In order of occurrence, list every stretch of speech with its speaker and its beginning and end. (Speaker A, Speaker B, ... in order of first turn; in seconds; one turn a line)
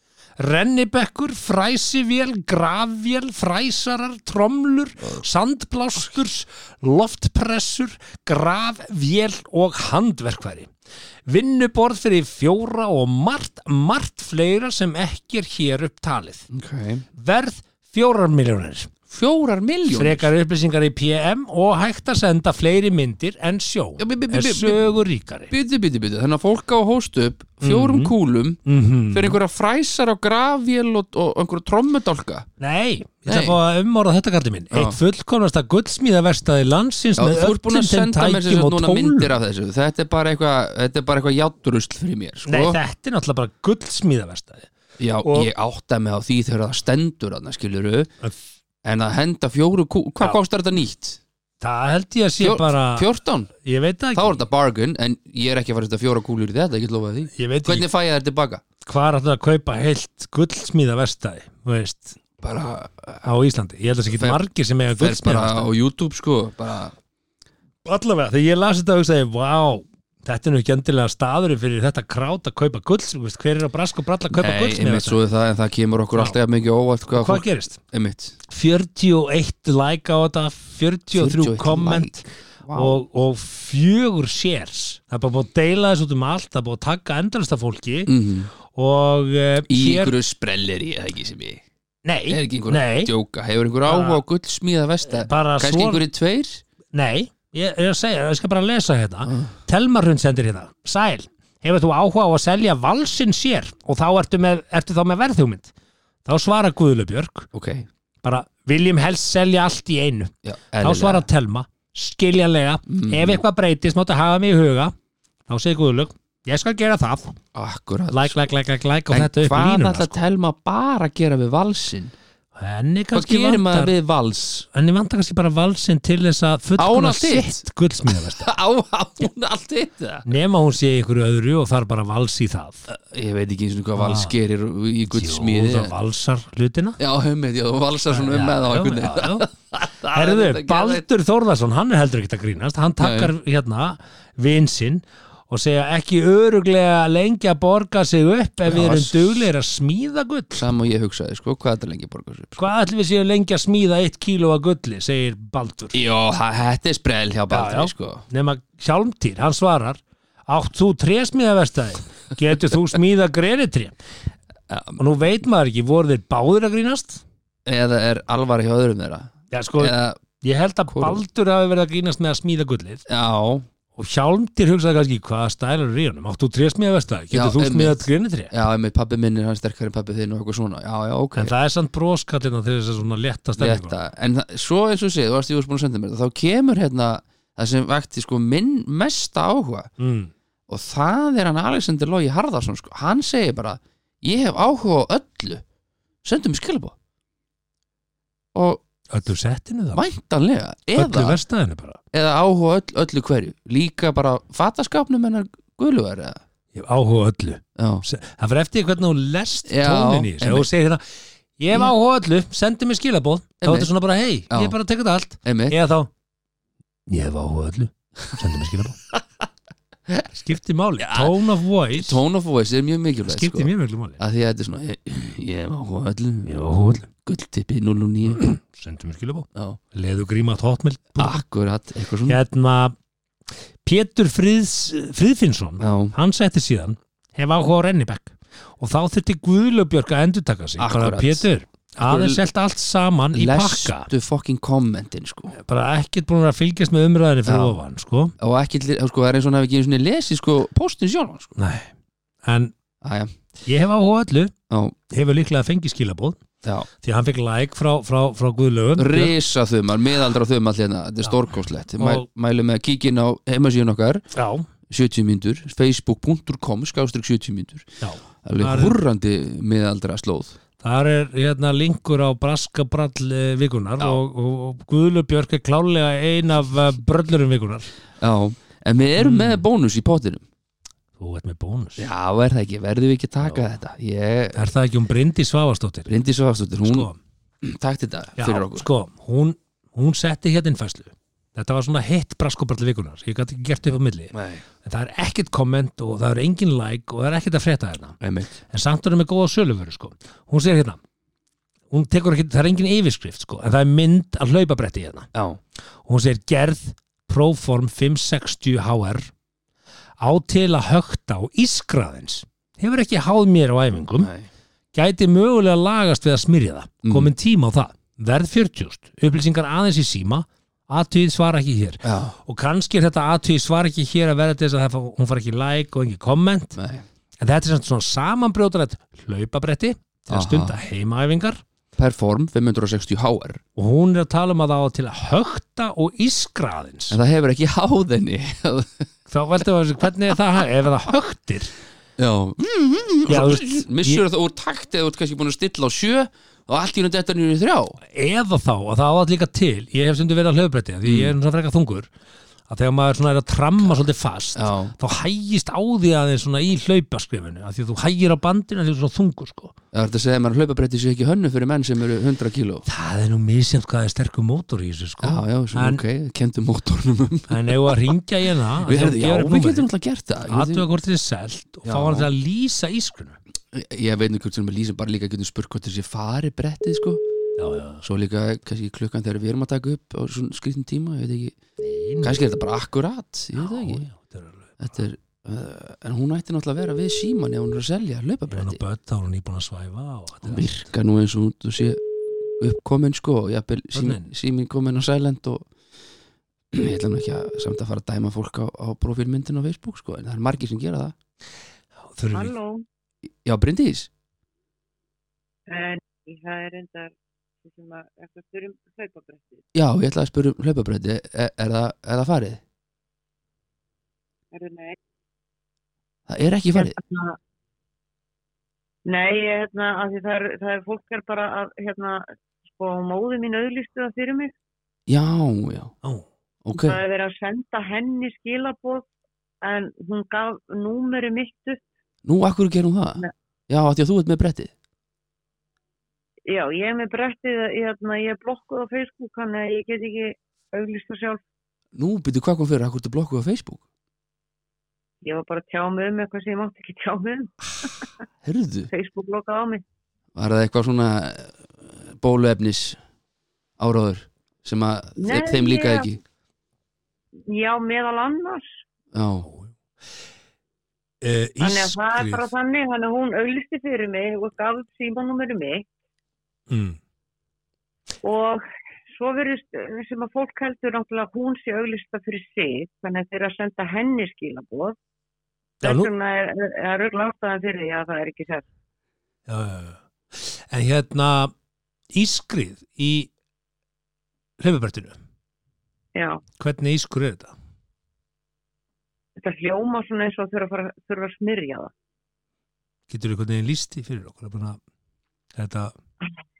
Speaker A: 0.4-10.7
Speaker A: 11.2-16.4
Speaker B: 16.5-17.0
Speaker A: 17.2-18.9
Speaker B: 19.1-20.3
Speaker A: 19.9-25.5
Speaker B: 24.0-24.9
Speaker B: 25.5-32.5
Speaker A: 27.6-28.1
Speaker A: 28.6-29.4
Speaker A: 32.6-39.3
Speaker B: 33.3-33.6
Speaker B: 34.7-35.0
Speaker B: 37.2-42.8
Speaker A: 42.5-44.7
Speaker B: 45.0-48.1
Speaker A: 45.2-45.5
Speaker B: 48.8-51.2
Speaker A: 51.6-53.1
Speaker B: 52.4-53.5
Speaker A: 53.6-54.4
Speaker B: 54.1-58.6
Speaker A: 57.4-57.9
Speaker A: 58.9-62.2
Speaker B: 62.4-63.2
Speaker A: 63.2-65.7
Speaker B: 64.1-64.4
Speaker B: 64.9-66.9
Speaker A: 67.8-75.2
Speaker B: 74.3-78.3
Speaker A: 77.1-77.8
Speaker A: 78.5-88.1
Speaker B: 81.1-83.0
Speaker B: 88.1-88.5
Speaker A: 88.6-90.2
Speaker B: 89.7-91.6
Speaker A: 92.0-93.1
Speaker B: 92.3-96.6
Speaker A: 93.8-94.2
Speaker A: 95.1-96.0
Speaker A: 96.9-105.7
Speaker B: 99.3-99.5
Speaker A: 106.2-107.5
Speaker B: 107.5-107.9
Speaker A: 108.2-114.9
Speaker B: 110.4-111.2
Speaker B: 112.9-113.4
Speaker A: 115.5-117.3
Speaker B: 117.5-118.4
Speaker A: 118.1-120.2
Speaker B: 119.1-122.1
Speaker A: 122.5-123.9
Speaker B: 123.1-124.7
Speaker A: 124.7-128.5
Speaker B: 126.8-130.3
Speaker A: 130.2-132.8
Speaker B: 132.9-135.9
Speaker A: 134.0-134.3
Speaker A: 135.1-137.0
Speaker B: 137.0-141.0
Speaker A: 138.1-139.5
Speaker A: 140.1-150.7
Speaker B: 143.0-143.3
Speaker B: 148.7-149.4
Speaker B: 150.6-152.7
Speaker A: 152.6-156.0
Speaker B: 155.9-158.2
Speaker A: 157.5-163.9
Speaker B: 164.7-165.0
Speaker A: 165.0-167.2
Speaker B: 167.7-170.2
Speaker A: 169.5-173.0
Speaker B: 170.9-171.2
Speaker B: 173.1-173.7
Speaker A: 173.9-178.5
Speaker B: 177.3-181.5
Speaker A: 181.3-184.0
Speaker B: 183.6-189.9
Speaker A: 190.0-190.3
Speaker B: 190.7-195.6
Speaker B: 196.2-196.9
Speaker B: 198.5-198.8
Speaker A: 199.1-200.0
Speaker B: 199.9-201.4
Speaker A: 201.0-202.0
Speaker B: 202.1-206.4
Speaker A: 206.7-211.0
Speaker B: 207.8-208.0
Speaker B: 209.7-210.7
Speaker A: 211.6-216.1
Speaker B: 213.6-213.9
Speaker B: 214.5-214.7
Speaker B: 215.4-215.8
Speaker A: 217.1-218.9
Speaker A: 220.3-222.2
Speaker B: 221.0-221.3
Speaker B: 221.9-228.4
Speaker A: 223.2-224.2
Speaker A: 226.4-227.1
Speaker A: 228.3-231.4
Speaker B: 231.2-232.4
Speaker A: 232.3-232.9
Speaker A: 233.8-244.1
Speaker B: 235.8-236.1
Speaker B: 240.8-241.4
Speaker B: 242.0-242.4
Speaker B: 243.3-245.5
Speaker A: 245.5-248.3
Speaker B: 247.5-247.8
Speaker B: 248.4-251.6
Speaker A: 251.6-251.9
Speaker A: 252.4-252.7
Speaker B: 253.0-253.3
Speaker A: 253.7-254.5
Speaker B: 254.7-254.9
Speaker A: 255.1-256.4
Speaker A: 257.0-259.3
Speaker B: 259.0-264.2
Speaker A: 262.0-262.2
Speaker A: 264.3-264.6
Speaker B: 264.9-267.9
Speaker A: 268.0-269.0
Speaker B: 268.4-270.5
Speaker A: 270.8-277.9
Speaker B: 278.2-280.4
Speaker A: 279.2-279.6
Speaker A: 281.2-282.1
Speaker B: 282.0-284.7
Speaker A: 284.6-286.1
Speaker B: 286.1-287.1
Speaker A: 286.8-287.2
Speaker B: 287.6-288.9
Speaker A: 288.4-294.3
Speaker B: 294.3-294.6
Speaker A: 294.8-298.2
Speaker B: 298.2-298.6
Speaker A: 298.7-301.0
Speaker A: 301.9-305.3
Speaker B: 305.3-305.6
Speaker A: 306.0-309.3
Speaker A: 310.2-314.3
Speaker B: 314.2-314.5
Speaker A: 314.9-326.8
Speaker B: 317.0-317.3
Speaker B: 322.0-322.4
Speaker B: 326.8-327.0
Speaker A: 327.4-331.6
Speaker B: 330.3-330.8
Speaker B: 332.0-333.6
Speaker A: 333.8-337.2
Speaker B: 337.1-339.1
Speaker A: 339.3-341.7
Speaker B: 342.2-348.0
Speaker A: 343.3-344.2
Speaker A: 348.1-352.1
Speaker B: 351.0-351.3
Speaker A: 352.7-359.7
Speaker B: 354.5-354.9
Speaker B: 359.9-362.8
Speaker A: 362.9-366.0
Speaker B: 365.2-367.9
Speaker A: 367.5-369.9
Speaker B: 368.8-370.9
Speaker A: 370.5-373.4
Speaker B: 371.9-372.3
Speaker B: 373.7-377.2
Speaker A: 377.6-378.0
Speaker B: 378.0-381.6
Speaker A: 381.8-382.4
Speaker B: 382.2-384.0
Speaker A: 383.6-384.8
Speaker B: 384.8-388.8
Speaker A: 388.5-390.7
Speaker B: 390.4-392.0
Speaker B: 392.6-395.6
Speaker A: 393.9-394.3
Speaker B: 396.7-401.1
Speaker A: 402.1-402.5
Speaker C: 402.3-402.8
Speaker B: 403.4-404.1
Speaker C: 405.7-409.6
Speaker B: 409.7-412.6
Speaker C: 414.5-415.0
Speaker B: 416.3-416.9
Speaker C: 416.7-417.4
Speaker C: 419.1-424.5
Speaker B: 425.1-425.9
Speaker B: 426.6-427.0
Speaker C: 426.7-429.0
Speaker C: 429.6-431.8
Speaker B: 432.2-434.7
Speaker C: 436.5-441.4
Speaker B: 441.9-443.8
Speaker C: 445.2-447.9
Speaker B: 448.4-448.9
Speaker C: 448.9-449.8
Speaker B: 450.3-453.0
Speaker B: 453.8-456.2
Speaker C: 455.2-456.1
Speaker C: 457.5-458.8
Speaker B: 459.1-459.5
Speaker A: 459.4-459.7
Speaker A: 461.2-462.4
Speaker C: 461.6-465.8
Speaker A: 466.7-467.0
Speaker C: 468.2-474.9
Speaker A: 475.8-476.1
Speaker C: 475.8-478.6
Speaker A: 479.5-481.5
Speaker A: 482.1-483.3
Speaker A: 484.6-485.2
Speaker C: 486.1-486.4
Speaker A: 486.6-487.5
Speaker C: 489.4-491.9
Speaker A: 493.1-494.8
Speaker A: 495.5-495.9